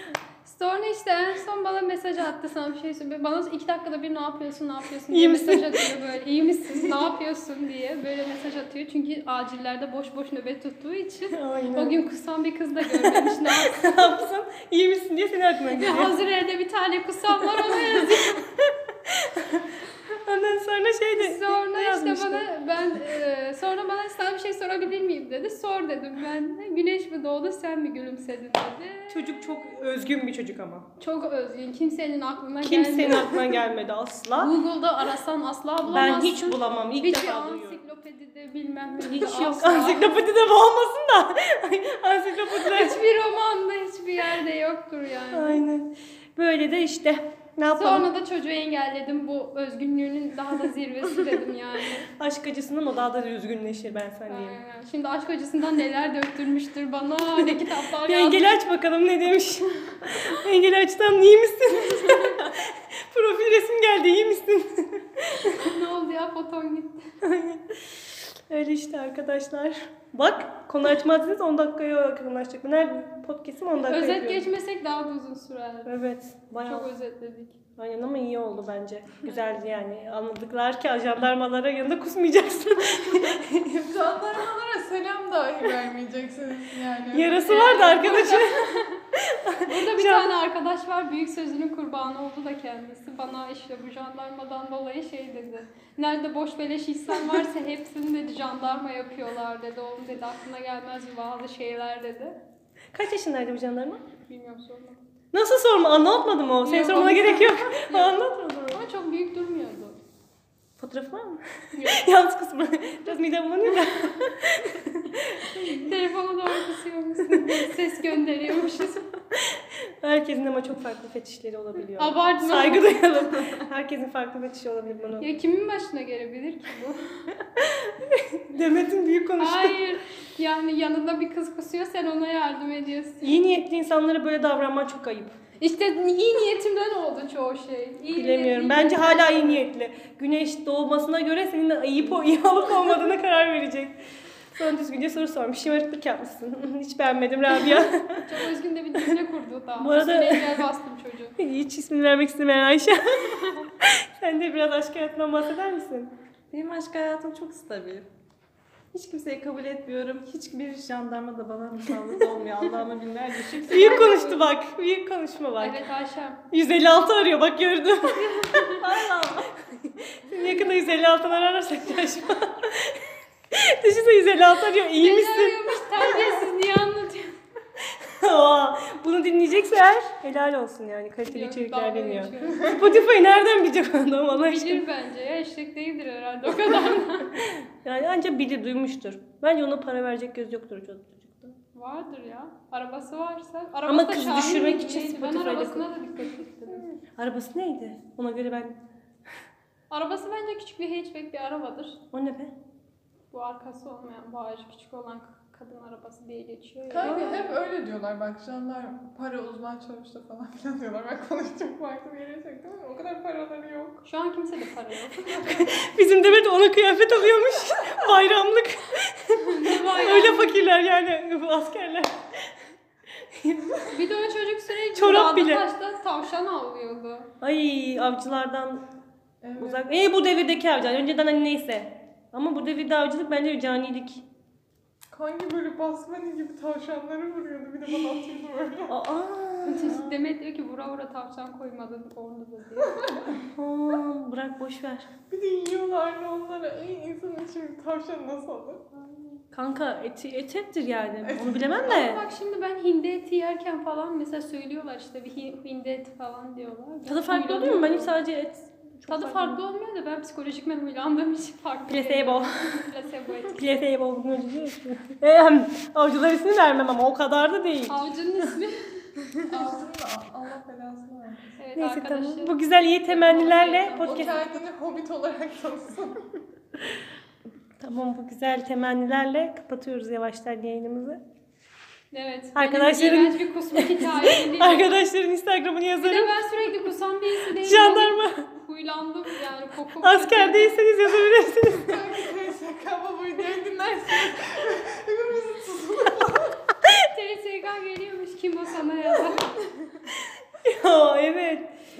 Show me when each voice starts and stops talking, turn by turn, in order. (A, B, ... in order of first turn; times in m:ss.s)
0:00.4-0:14.2 A
0:05.1-0:05.9 B
0:06.7-0:07.1 B
0:11.3-0:12.0 B
0:13.0-0:16.2 B
0:15.7-0:18.5 A
0:17.4-0:22.4 B
0:21.2-0:29.7 A
0:29.1-0:30.8 B
0:31.0-0:33.6 A
0:32.6-0:34.5 B
0:34.3-0:40.2 A
0:35.9-0:37.8 B
0:39.0-0:43.0 B
0:42.5-0:45.6 A
0:45.3-0:48.1 B
0:47.8-0:52.1 A
0:52.1-0:54.6 B
0:54.3-0:58.5 A
0:57.3-1:05.5 B
1:01.8-1:02.4 A
1:05.4-1:07.0 A
1:07.2-1:14.5 B
1:13.8-1:15.9 A
1:15.8-1:16.9 B
1:16.6-1:17.6 A
1:17.8-1:23.9 B
1:22.9-1:23.3 A
1:23.8-1:27.4 C
1:27.1-1:28.6 B
1:27.4-1:29.0 A
1:29.2-1:30.3 B
1:29.6-1:42.4 A
1:37.1-1:37.4 B
1:42.9-1:44.0 B
1:44.2-1:45.0 A
1:45.3-1:48.8 B
1:46.6-1:50.0 A
1:50.8-1:56.0 B
1:51.8-1:52.0 A
1:53.8-1:54.1 A
1:55.1-1:59.0 A
1:57.3-1:57.6 B
1:59.3-2:05.3 B
2:01.9-2:03.1 A
2:05.2-2:07.3 A
2:07.6-2:09.8 B
2:09.4-2:13.3 A
2:13.2-2:15.3 B
2:15.6-2:19.6 A
2:18.1-2:24.0 B
2:24.5-2:28.4 B
2:27.5-2:31.3 A
2:29.8-2:30.6 B
2:31.4-2:36.1 B
2:36.5-2:38.0 D
2:38.9-2:42.8 D
2:40.9-2:44.0 C
2:43.6-2:45.8 B
2:43.7-2:44.6 A
2:45.6-2:46.4 A
2:46.5-2:56.4 B
2:48.2-2:48.9 A
2:54.9-2:57.3 A
2:58.0-3:04.8 B
3:01.3-3:03.0 A
3:04.3-3:07.4 A
3:06.9-3:11.6 B
3:11.7-3:17.0 A
3:13.9-3:15.9 B
3:16.8-3:18.8 B
3:19.9-3:22.0 A
3:22.1-3:22.5 B
3:23.3-3:27.6 A
3:26.9-3:34.0 C
3:34.0-3:35.6 A
3:35.4-3:42.2 B
3:39.4-3:40.6 A
3:43.3-3:43.9 B
3:43.8-3:47.3 A
3:44.9-3:45.6 B
3:47.4-3:48.8 B
3:49.4-3:49.8 C
3:49.6-3:54.2 B
3:55.1-3:58.9 C
3:58.9-4:00.2 B
3:59.6-4:03.3 A
4:03.5-4:05.1 B
4:05.3-4:08.9 C
4:09.5-4:12.2 B
4:11.3-4:11.6 C
4:11.8-4:18.1 A
4:17.0-4:19.6 B
4:19.1-4:23.6 A
4:21.9-4:22.8 B
4:23.5-4:28.5 B
4:27.9-4:29.1 A
4:29.4-4:31.5 C
4:31.6-4:34.4 A
4:31.8-4:34.4 B
4:33.8-4:36.3 C
4:37.8-4:41.2 B
4:42.1-4:45.0 A
4:42.5-4:46.3 B
4:46.0-4:50.8 A
4:47.5-4:48.4 B
4:50.0-4:52.1 B
4:51.7-4:56.6 C
4:56.9-4:59.7 A
5:00.6-5:01.7 B